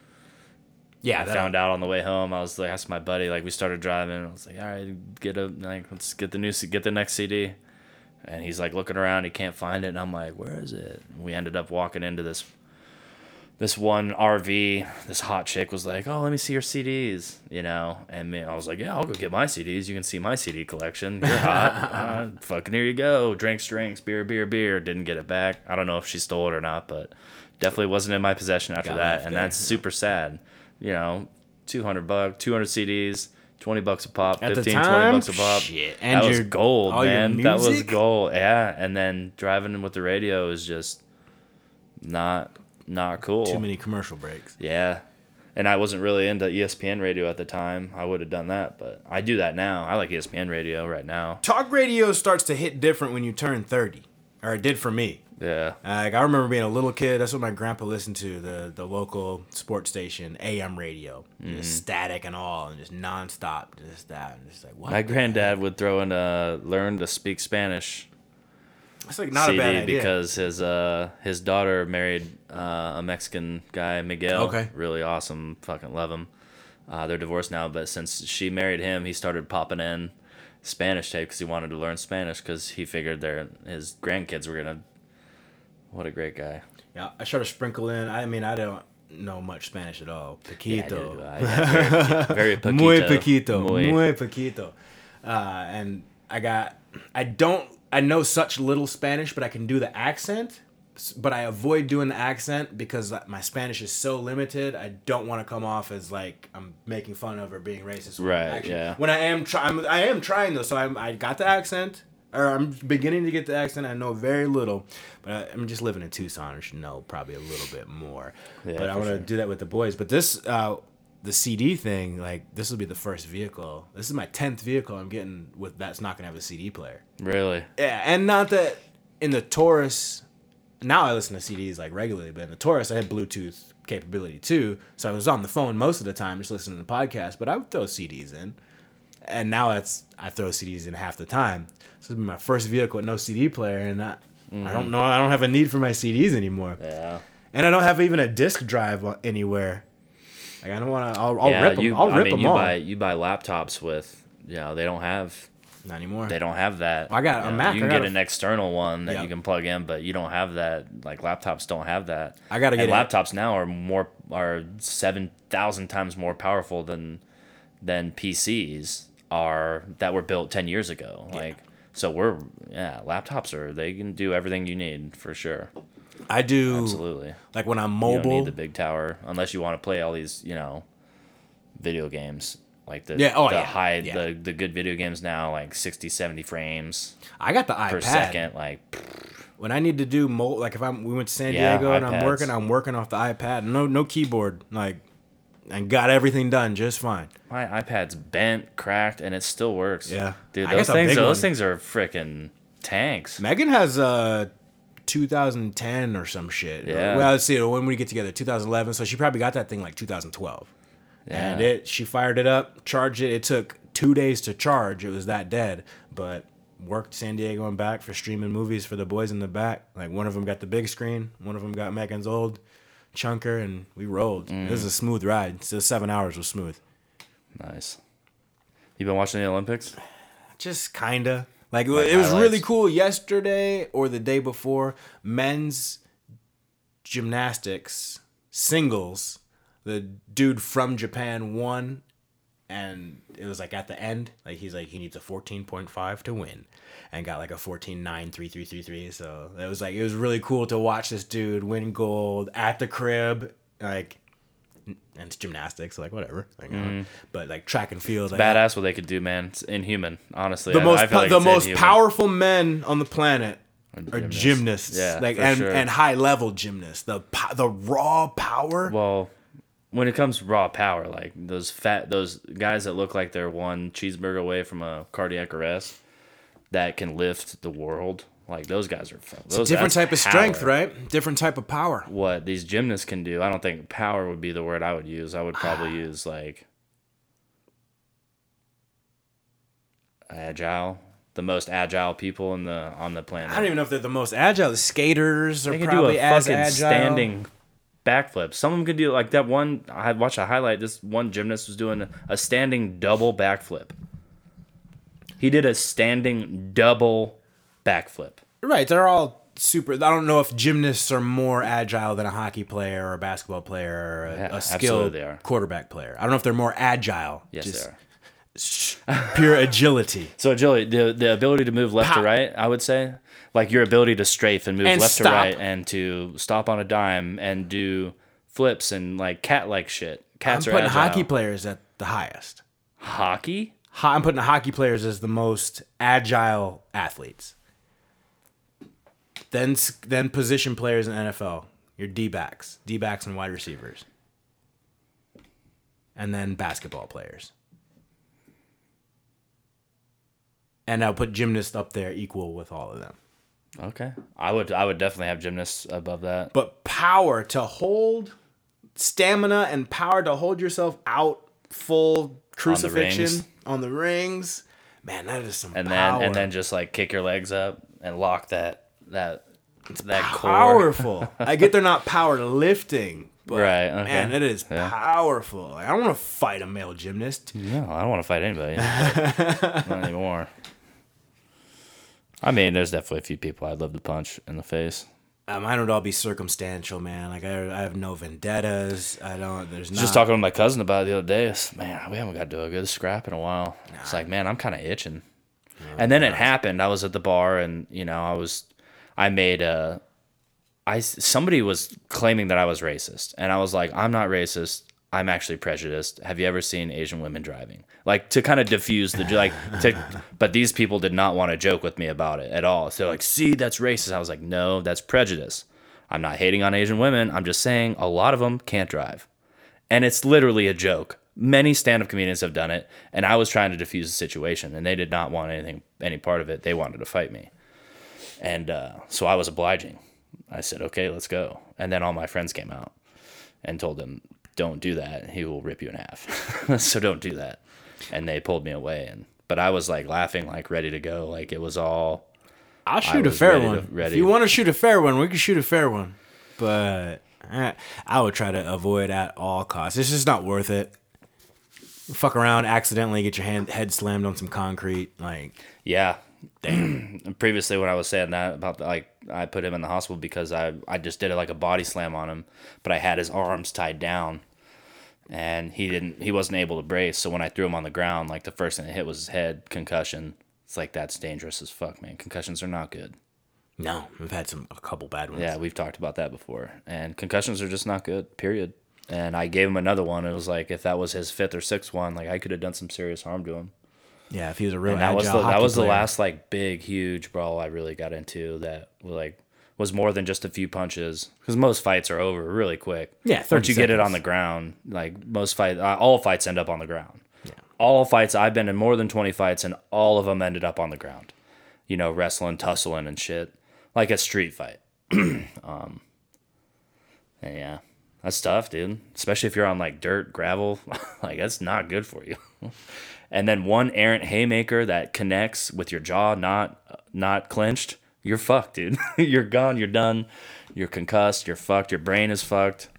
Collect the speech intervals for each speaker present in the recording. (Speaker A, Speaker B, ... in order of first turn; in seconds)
Speaker A: 1.0-1.5, 21.4-22.1, 28.8-29.8, 34.4-38.0, 43.5-44.5, 51.4-55.2, 55.8-65.6, 69.1-70.1, 74.3-74.7, 86.9-127.0, 127.8-130.2, 130.8-138.6, 139.2-146.8, 147.5-149.8, 150.6-152.8, 155.8-156.4, 157.1-158.2, 162.5-163.1, 176.3-178.6, 183.2-184.2, 187.4-188.5, 189.6-195.0, 195.7-197.3, 200.1-201.5, 203.4-204.5, 205.1-210.7, 211.3-222.6, 223.1-226.8, 230.6-236.0, 237.0-242.0, 242.7-254.2, 254.9-258.6, 260.7-263.6, 264.1-268.9, 279.5-282.1, 285.6-285.9, 293.4-297.3, 308.6-317.9, 318.6-320.3, 322.0-322.3, 324.8-325.6, 330.4-332.6, 333.9-337.5, 339.5-344.1, 346.2-347.5, 350.9-353.2, 356.5-358.4, 359.0-366.5, 370.1-377.5, 378.8-380.0, 385.5-390.3, 393.9-394.3, 395.8-396.5, 442.9-450.9, 452.1-455.6, 456.6-457.0, 473.8-475.5, 484.3-486.1, 493.2-494.2
Speaker B: 1.2-7.6, 8.2-12.5, 13.6-41.0, 42.0-43.6, 44.6-45.0, 45.5-51.4, 55.4-55.8, 61.4-61.8, 64.9-68.1, 69.3-76.3, 76.9-84.8, 85.9-86.6, 90.7-94.1, 108.2-109.0, 118.6-119.3, 127.2-127.7, 144.5-144.9, 146.8-147.2, 151.4-155.5, 156.3-167.2, 167.8-175.7, 176.7-177.4, 178.1-180.8, 181.8-187.2, 187.9-189.3, 191.5-192.5, 197.5-203.4, 206.8-207.3, 211.3-211.7, 224.5-224.9, 227.6-228.0, 229.0-230.0, 231.9-232.7, 256.7-257.1, 258.3-262.0, 263.9-265.9, 268.9-269.3, 269.9-276.0, 276.7-280.7, 282.1-286.6, 290.3-293.7, 295.7-297.5, 298.1-303.9, 305.4-308.4, 314.3-315.4, 317.5-318.0, 319.1-319.4, 320.4-331.3, 333.0-333.7, 353.8-356.5, 362.7-363.5, 365.7-371.4, 373.5-374.9, 377.5-380.5, 382.4-385.1, 389.9-395.2, 396.0-400.0, 400.9-419.3, 419.9-427.5, 428.4-432.9, 433.6-442.2, 443.0-444.4, 455.9-464.4, 465.3-473.1, 475.3-483.7, 484.9-497.2, 497.8-501.3, 501.9-506.0, 507.4-512.8, 513.3-522.9